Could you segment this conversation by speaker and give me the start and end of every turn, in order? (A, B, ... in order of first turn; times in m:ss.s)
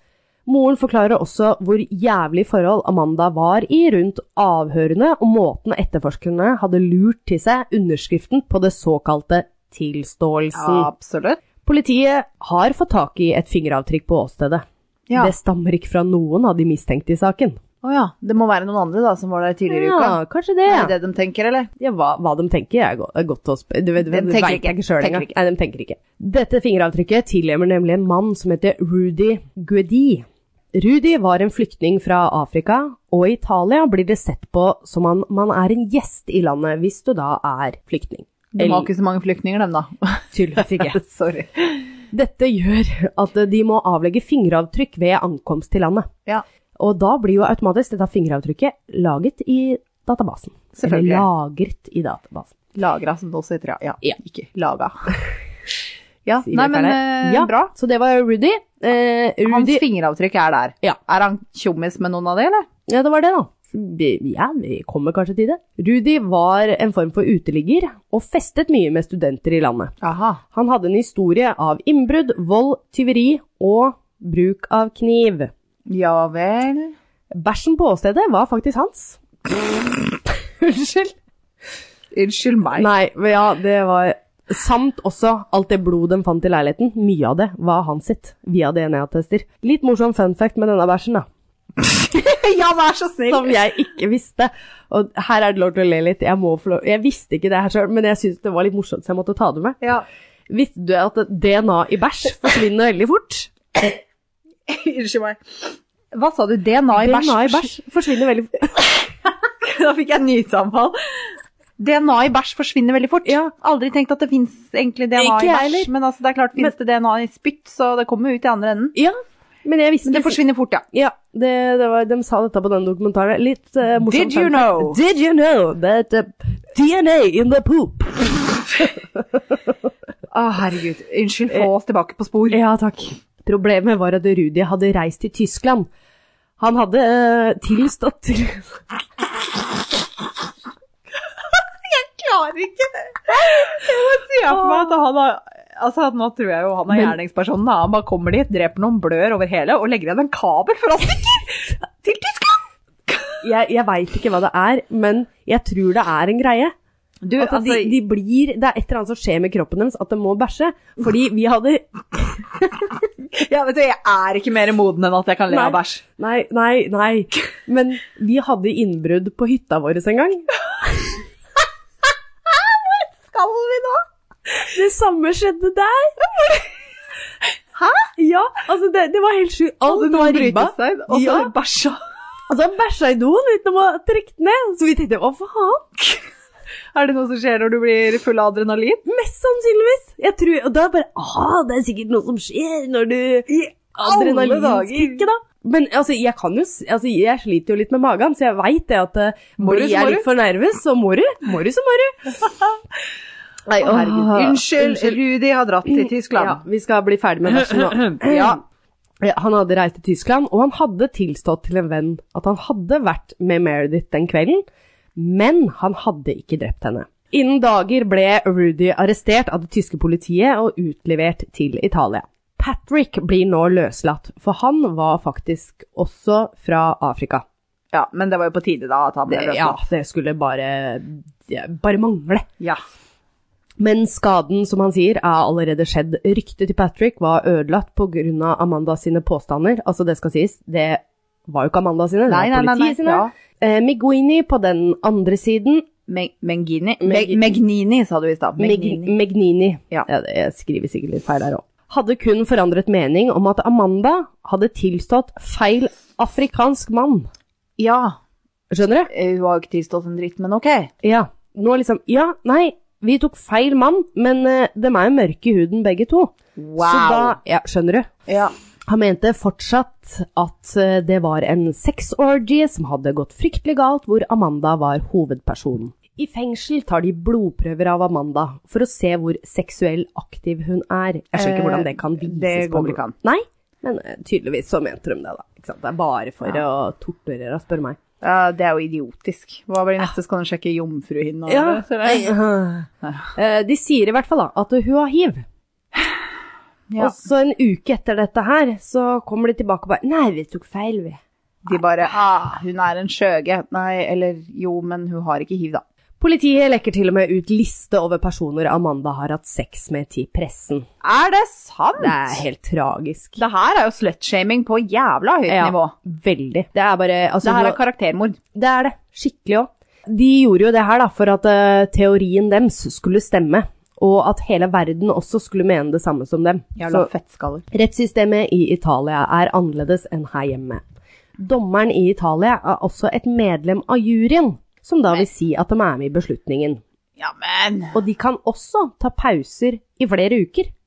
0:00.4-0:10.9 A
0:10.5-0:11.4 B
0:11.6-0:14.6 A
0:15.1-0:15.3 B
0:15.2-0:17.6 A
0:17.8-0:21.7 B
0:19.7-0:20.9 A
0:21.8-0:38.9 A
0:24.0-0:25.3 B
0:38.5-0:41.9 B
0:40.3-0:41.0 A
0:42.1-0:46.1 A
0:46.8-0:52.5 A
0:50.8-0:51.2 B
0:52.7-0:55.1 B
0:56.2-0:57.7 B
0:56.4-0:59.8 A
0:59.4-1:02.7 B
1:02.9-1:09.9 A
1:10.0-1:10.4 B
1:10.5-1:15.5 A
1:15.9-1:16.9 B
1:17.3-1:21.1 A
1:22.1-1:22.9 B
1:22.8-1:31.3 A
1:31.8-1:33.6 B
1:33.3-1:39.8 A
1:40.5-1:43.5 A
1:44.7-1:47.7 B
1:47.0-1:48.8 A
1:49.6-1:50.9 B
1:51.8-1:58.9 B
1:53.2-1:53.5 A
1:55.2-1:55.9 A
1:58.9-2:00.4 A
2:00.0-2:00.8 B
2:00.9-2:09.6 A
2:04.0-2:05.0 B
2:10.3-2:12.6 B
2:12.5-2:15.9 A
2:16.6-2:18.8 A
2:21.4-2:33.4 B
2:33.4-2:36.7 A
2:37.2-2:38.0 B
2:37.4-2:42.7 A
2:43.3-2:46.0 B
2:45.5-2:51.2 A
2:52.4-2:54.0 B
2:54.5-2:56.3 A
2:57.7-2:58.1 B
2:58.1-3:01.5 A
2:59.8-3:02.0 B
3:02.5-3:05.8 A
3:06.9-3:09.0 B
3:09.0-3:22.5 A
3:13.5-3:15.3 B
3:19.6-3:20.2 B
3:23.7-3:25.2 A
3:23.7-3:26.6 B
3:25.8-3:28.6 A
3:27.6-3:28.6 B
3:29.2-3:34.6 A
3:35.2-3:47.4 A
3:47.9-3:49.8 B
3:49.3-3:52.5 A
3:53.8-4:05.9 A
4:02.3-4:03.3 B
4:06.1-4:09.1 B
4:07.0-4:07.4 A
4:08.6-4:17.3 A
4:17.8-4:18.2 B
4:18.7-4:19.1 A
4:19.1-4:20.9 B
4:21.0-4:28.1 A
4:26.6-4:27.4 B
4:28.3-4:28.5 B
4:28.9-4:48.0 A
4:41.3-4:43.1 B
4:48.2-4:52.3 B
4:51.5-4:55.4 A
4:56.9-4:57.2 B
4:57.0-5:01.2 A
5:01.6-5:05.8 B
5:06.2-5:10.9 A
5:11.0-5:12.4 B
5:12.0-5:13.4 A
5:13.4-5:15.9 B
5:15.5-5:17.8 A
5:17.4-5:18.4 B
5:18.5-5:27.1 A
5:26.8-5:27.6 B
5:27.7-5:30.8 A
5:31.4-5:36.8 A
5:37.2-5:38.0 B
5:37.9-5:40.7 A